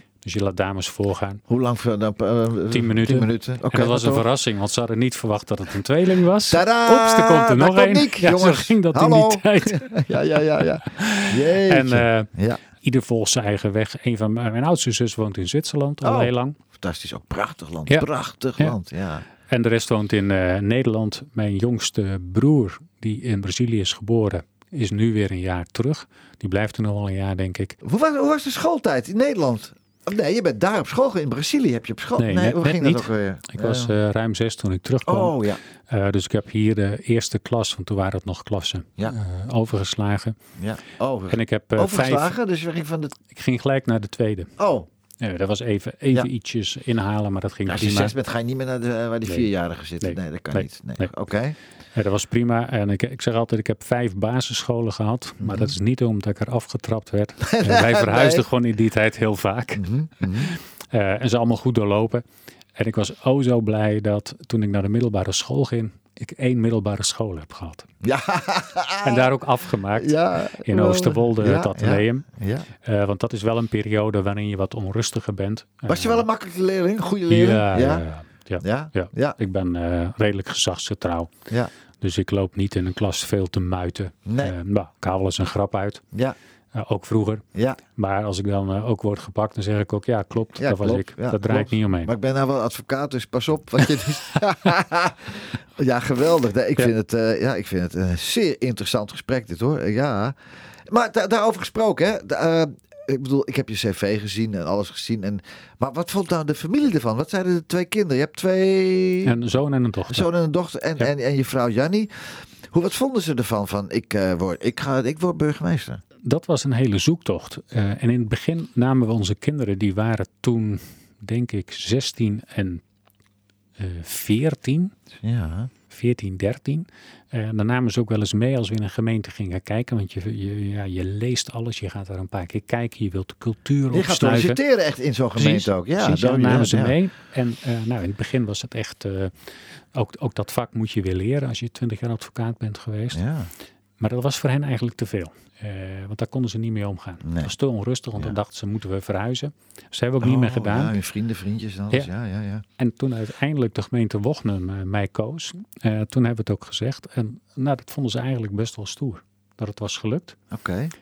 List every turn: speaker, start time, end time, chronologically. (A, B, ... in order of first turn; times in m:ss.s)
0:00.2-0:01.4 A
0:01.5-0:04.2 B
0:02.7-0:12.3 A
0:06.5-0:12.6 B
0:12.8-0:16.6 A
0:16.0-0:19.2 B
0:19.5-0:27.8 A
0:27.8-0:33.9 B
0:32.2-0:35.4 A
0:35.0-0:35.6 B
0:35.9-0:40.4 A
0:40.6-0:43.2 B
0:41.3-0:42.3 A
0:43.3-0:44.5 A
0:44.6-0:44.9 B
0:45.2-0:48.1 A
0:47.6-0:51.6 B
0:50.0-0:51.1 A
0:51.9-1:02.2 A
0:55.4-0:55.7 B
0:57.4-0:58.4 B
0:59.8-1:00.5 B
1:02.8-1:07.9 A
1:08.0-1:09.4 B
1:09.0-1:12.2 A
1:09.9-1:12.7 B
1:12.8-1:16.2 A
1:15.9-1:18.0 B
1:17.3-1:21.3 A
1:18.6-1:19.4 B
1:22.0-1:26.0 A
1:24.2-1:24.5 B
1:26.7-1:27.4 A
1:27.5-1:27.8 B
1:28.0-1:32.1 A
1:30.6-1:40.4 B
1:40.9-1:49.4 B
1:49.2-1:50.3 A
1:50.1-1:56.0 B
1:56.2-2:02.8 A
2:03.8-2:04.9 A
2:05.2-2:05.7 B
2:05.9-2:14.6 A
2:13.9-2:17.0 B
2:15.4-2:19.3 A
2:19.9-2:23.2 A
2:23.1-2:23.5 B
2:24.0-2:30.9 A
2:27.2-2:27.5 B
2:30.2-2:32.6 B
2:32.8-2:40.4 A
2:40.5-2:40.9 B